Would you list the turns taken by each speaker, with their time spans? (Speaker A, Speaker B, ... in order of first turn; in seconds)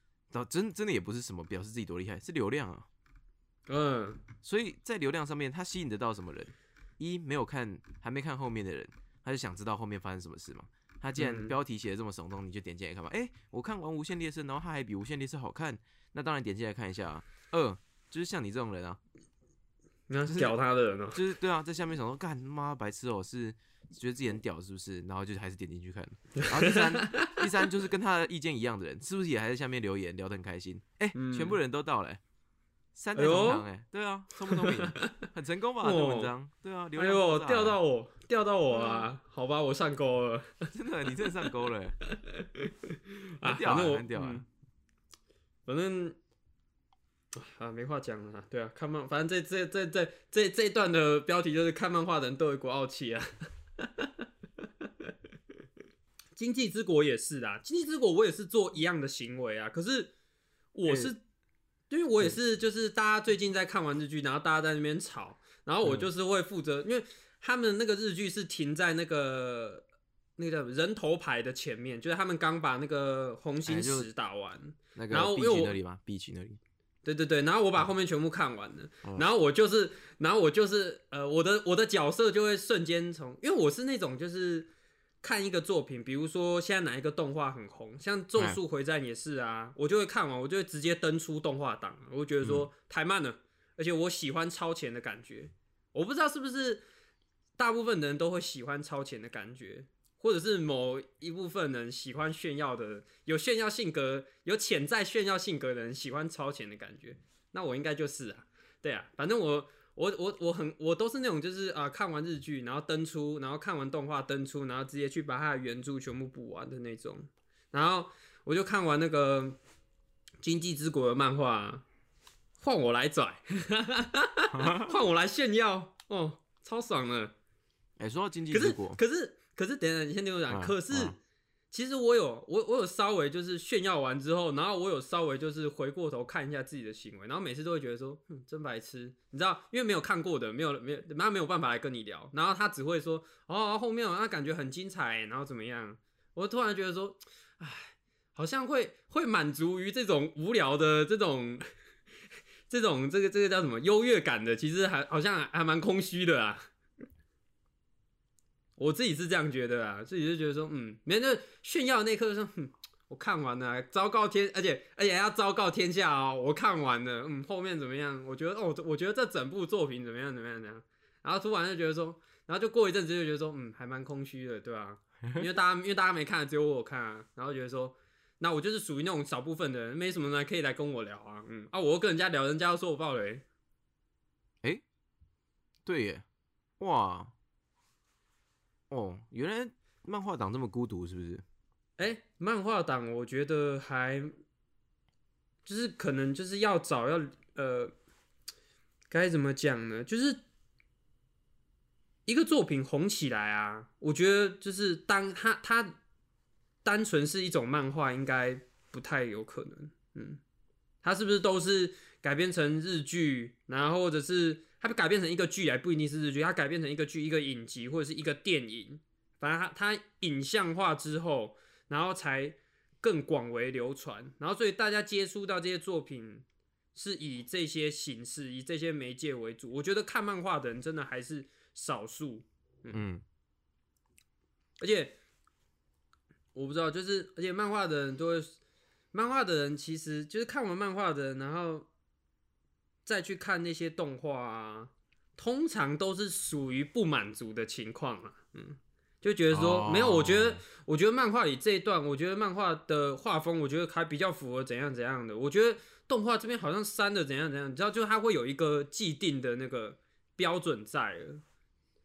Speaker A: 0.3-2.9, 4.4-19.0, 20.3-20.6, 21.1-32.2, 33.0-37.8, 38.7-39.1, 40.7-42.0, 43.4-44.5, 60.9-61.1, 73.7-74.1, 75.0-76.6, 92.4-92.7, 124.5-124.9, 128.0-129.0, 130.5-131.2, 185.9-186.2, 186.8-187.3, 188.9-191.4, 232.9-233.2, 249.5-250.6
Speaker B: 3.7-4.2, 11.2-11.6, 20.1-21.2, 26.4-27.3, 31.1-31.6, 33.1-33.7, 34.5-35.1, 35.8-36.4, 37.0-40.7, 42.1-42.7, 43.4-44.4, 45.7-46.2, 47.3-54.1, 56.4-60.1, 60.8-61.2, 61.9-69.9, 70.4-75.8, 77.0-84.7, 85.2-96.8, 97.6-119.6, 120.4-121.8, 122.6-127.3, 128.5-131.2, 131.7-151.6, 152.7-156.6, 158.8-183.4, 192.0-194.3, 195.7-197.9, 199.1-200.4, 202.3-206.0, 206.8-210.4, 211.0-233.1, 234.8-235.1, 236.5-238.6, 239.1-241.9, 243.1-261.4